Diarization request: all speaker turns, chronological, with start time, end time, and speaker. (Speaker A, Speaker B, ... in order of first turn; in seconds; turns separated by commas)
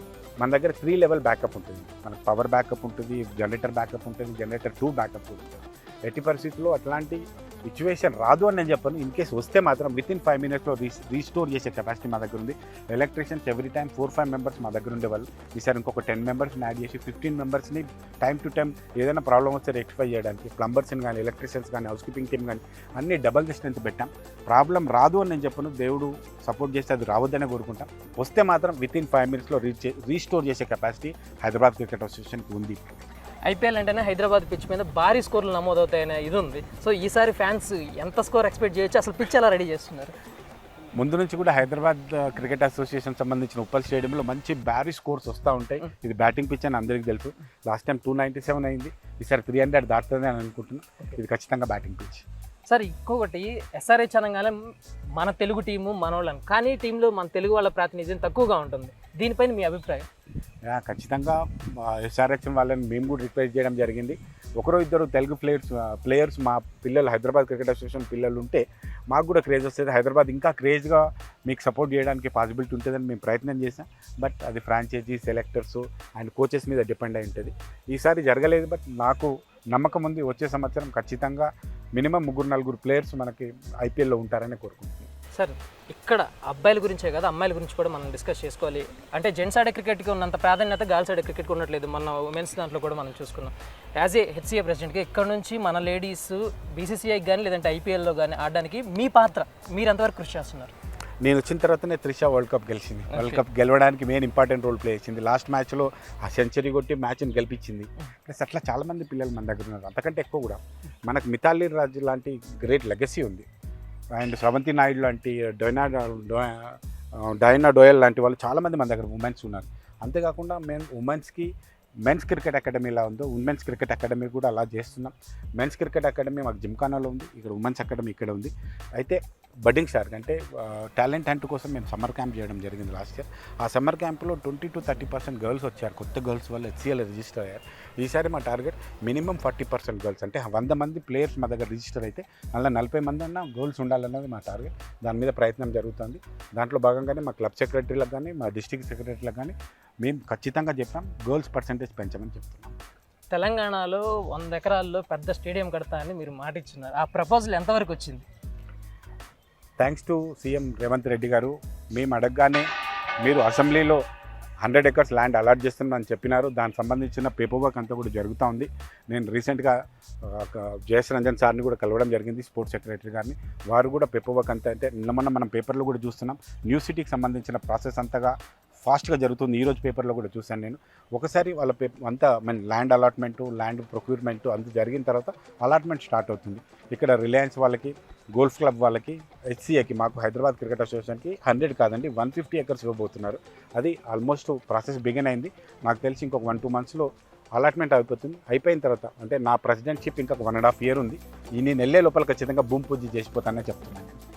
Speaker A: 0.4-32.8, Speaker B: 33.4-40.1, Speaker A: 41.0-52.2, Speaker B: 52.7-60.0, Speaker A: 60.7-85.1, Speaker B: 85.3-100.7, Speaker A: 101.2-113.5, Speaker A: 114.1-121.5, Speaker A: 122.0-152.8, Speaker B: 153.3-158.2, Speaker A: 159.8-162.7, Speaker A: 163.2-164.0, Speaker A: 164.6-204.2